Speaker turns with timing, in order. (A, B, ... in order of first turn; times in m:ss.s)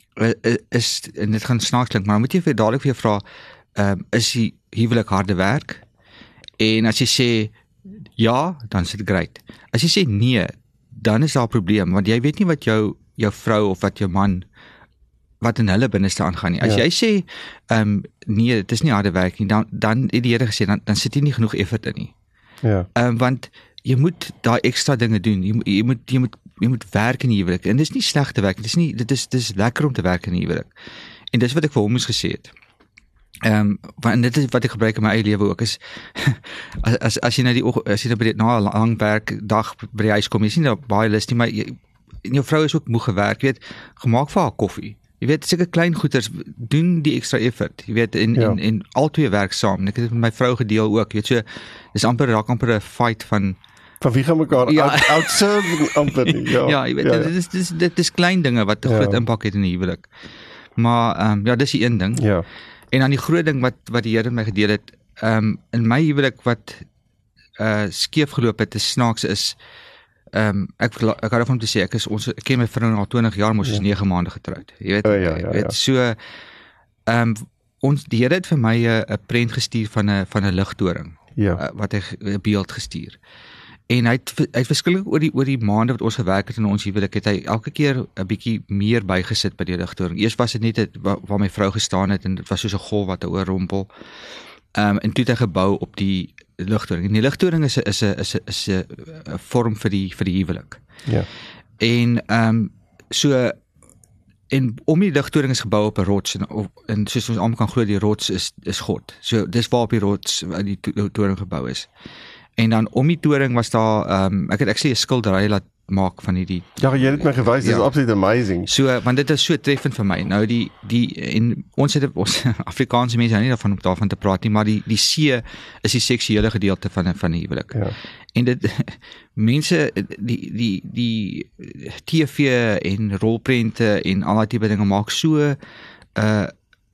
0:00.2-0:03.2 A
0:03.8-0:05.8 A
0:06.6-0:07.5 A
0:08.2-0:14.4 A
0:15.4-0:22.1 A
0:23.0-0:30.7 A
0:31.3-0:32.5 A
0:33.4-0:53.6 A
0:54.0-0:57.3 B
0:54.7-1:00.1 A
0:58.9-0:59.2 B
1:00.8-1:02.3 A
1:02.2-1:02.4 B
1:02.9-1:06.9 A
1:07.6-1:09.6 A
1:10.3-1:16.2 A
1:15.0-1:15.8 B
1:17.1-1:23.2 A
1:21.4-1:21.6 B
1:23.9-1:33.9 A
1:34.8-1:40.8 A
1:41.8-1:43.6 A
1:44.5-1:51.9 A
1:52.6-1:57.9 A
1:56.8-1:58.7 B
1:58.7-2:07.8 A
2:08.4-2:15.6 A
2:16.2-2:16.5 A